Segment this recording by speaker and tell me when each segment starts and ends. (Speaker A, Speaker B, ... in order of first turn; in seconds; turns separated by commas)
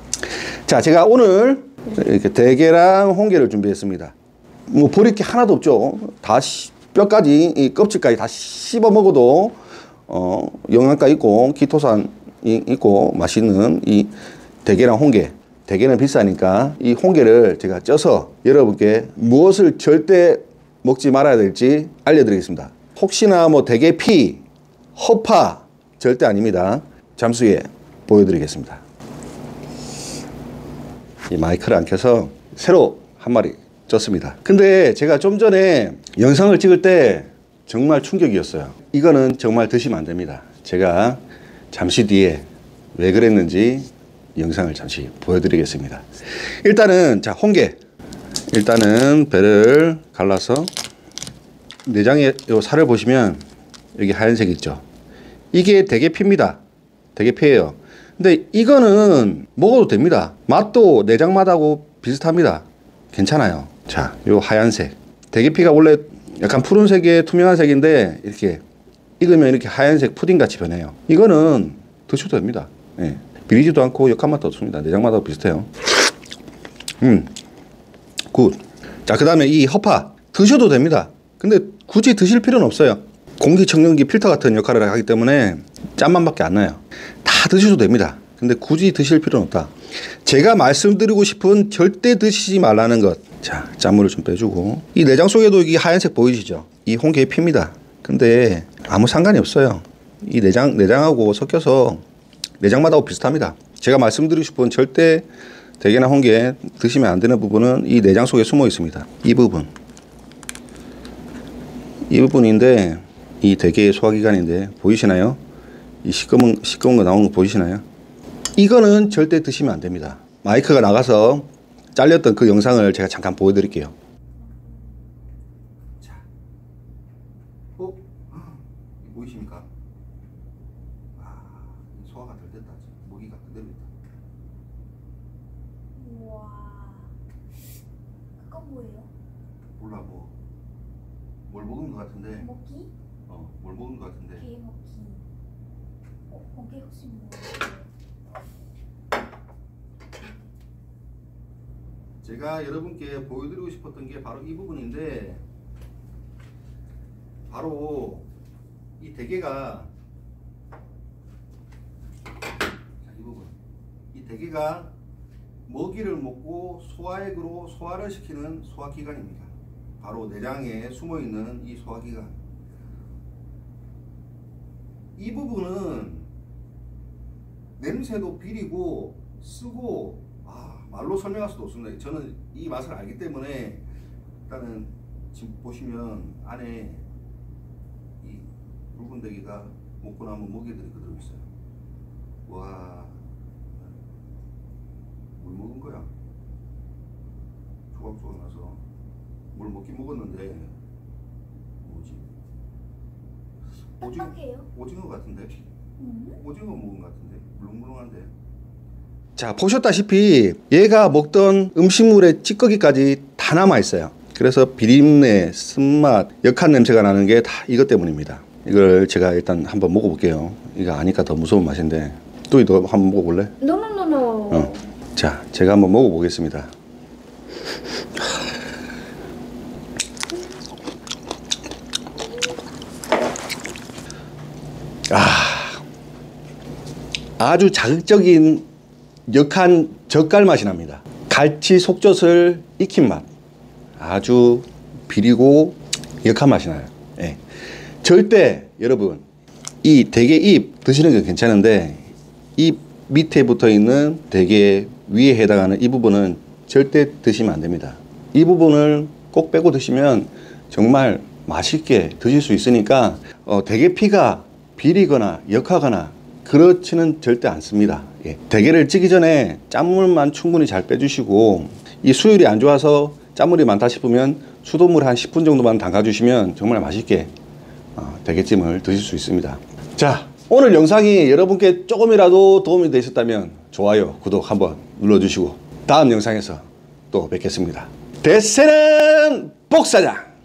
Speaker A: 0.6-4.1, Speaker A: 4.7-9.6, Speaker A: 10.1-14.1, Speaker A: 14.6-24.4, Speaker A: 24.9-28.8, Speaker A: 31.3-46.0, Speaker A: 46.6-47.8, Speaker A: 48.5-50.7, Speaker A: 51.8-53.4, Speaker A: 53.9-54.8, Speaker A: 55.5-56.6, Speaker A: 57.1-68.6, Speaker A: 69.2-75.7, Speaker A: 77.0-77.3, Speaker A: 78.3-89.7, Speaker A: 90.2-102.0, Speaker A: 102.6-105.3, Speaker A: 105.8-109.7, Speaker A: 112.1-115.4, Speaker A: 116.0-117.8, Speaker A: 118.6-123.9, Speaker B: 124.5-124.8, Speaker A: 127.8-129.7, Speaker A: 131.2-133.9, Speaker B: 135.9-137.1, Speaker B: 138.4-139.1, Speaker A: 139.8-140.3, Speaker A: 141.5-142.5, Speaker B: 142.4-142.9, Speaker A: 143.3-144.4, Speaker B: 144.3-145.2, Speaker B: 146.3-147.9, Speaker A: 152.2-155.4, Speaker A: 157.5-158.3, Speaker A: 159.0-159.9, Speaker A: 163.0-163.5, Speaker A: 164.1-164.9, Speaker A: 165.7-172.4, Speaker A: 175.2-176.3, Speaker A: 177.8-183.8, Speaker A: 184.5-187.1, Speaker A: 188.2-191.5, Speaker A: 192.4-193.2, Speaker A: 195.3-196.1, Speaker A: 197.9-198.8, Speaker A: 199.5-200.8, Speaker A: 201.8-202.3, Speaker A: 204.0-205.7, Speaker B: 204.0-204.7, Speaker B: 206.0-206.4, Speaker A: 206.3-208.3, Speaker A: 209.4-223.6, Speaker B: 223.6-224.8, Speaker A: 224.5-226.7, Speaker A: 235.1-235.8, Speaker A: 237.4-238.7, Speaker A: 239.3-243.3, Speaker A: 244.0-247.4, Speaker A: 248.0-249.2, Speaker A: 249.8-277.3, Speaker A: 277.9-290.3